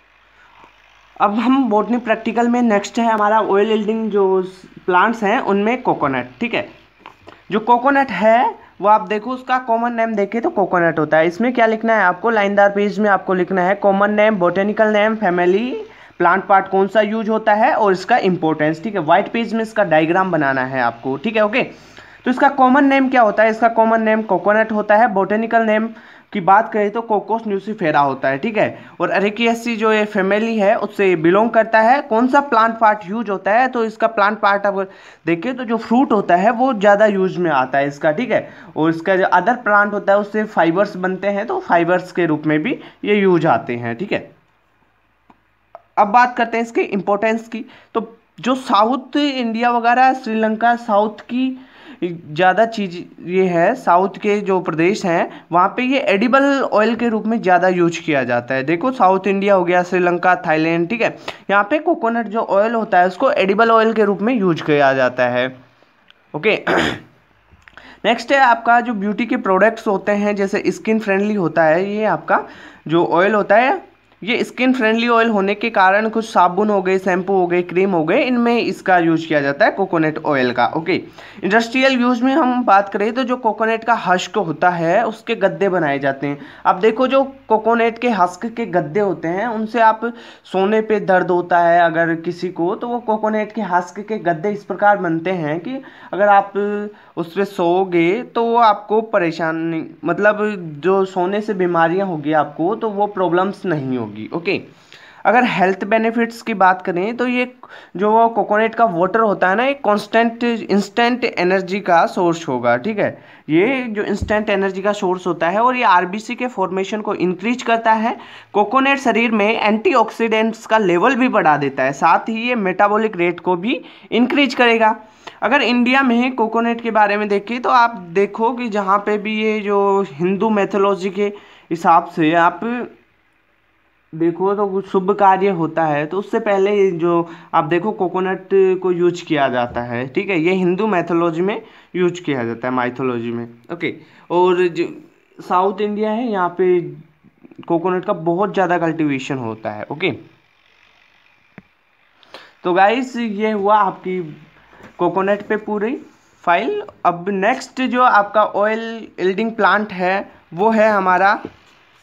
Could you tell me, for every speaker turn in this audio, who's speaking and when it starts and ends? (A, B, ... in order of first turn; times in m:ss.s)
0:01.2-0:06.7 A
0:07.5-0:21.7 A
0:22.2-0:44.3 A
0:46.0-1:05.5 A
1:06.3-1:07.0 A
1:08.0-1:44.6 A
1:45.2-2:12.9 A
2:14.1-2:27.0 A
2:27.6-2:30.2 A
2:32.6-2:34.3 A
2:35.0-2:41.4 A